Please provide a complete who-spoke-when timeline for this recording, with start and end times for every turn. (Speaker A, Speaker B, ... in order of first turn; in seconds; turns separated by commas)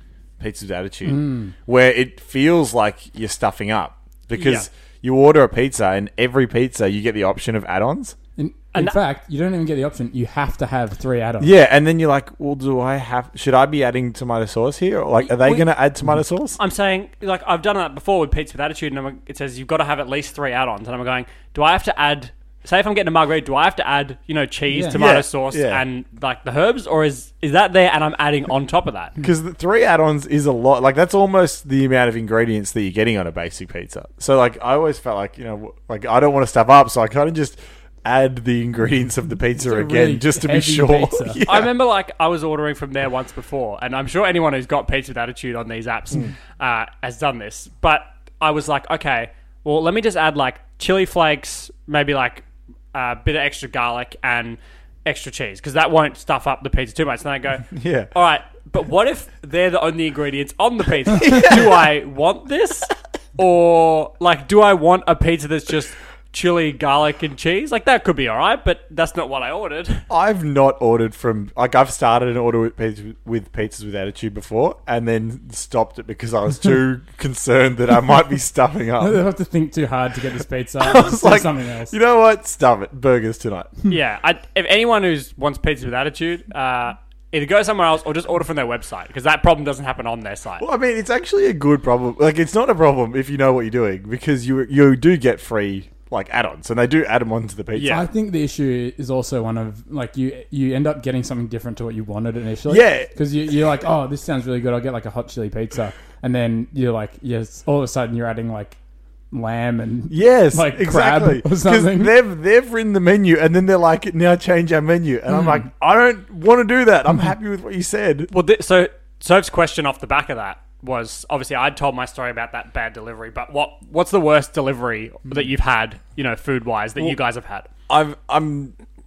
Speaker A: 0.4-8.2, Speaker B: 1.0-1.5, Speaker C: 4.3-4.7, Speaker B: 8.4-11.5, Speaker A: 11.4-16.6, Speaker C: 15.2-15.7, Speaker C: 16.6-29.2, Speaker B: 24.7-25.0, Speaker A: 24.9-25.8, Speaker A: 29.2-41.7, Speaker B: 39.6-41.4, Speaker C: 41.5-70.0, Speaker A: 57.7-58.1, Speaker A: 61.1-61.9, Speaker A: 70.1-79.2, Speaker B: 79.0-81.9, Speaker A: 80.8-83.7, Speaker C: 83.9-90.7, Speaker A: 90.6-98.0, Speaker C: 97.7-98.0, Speaker B: 97.8-108.8, Speaker A: 102.7-103.1, Speaker B: 109.3-112.1, Speaker A: 110.1-118.3, Speaker C: 118.3-127.7, Speaker A: 127.9-128.7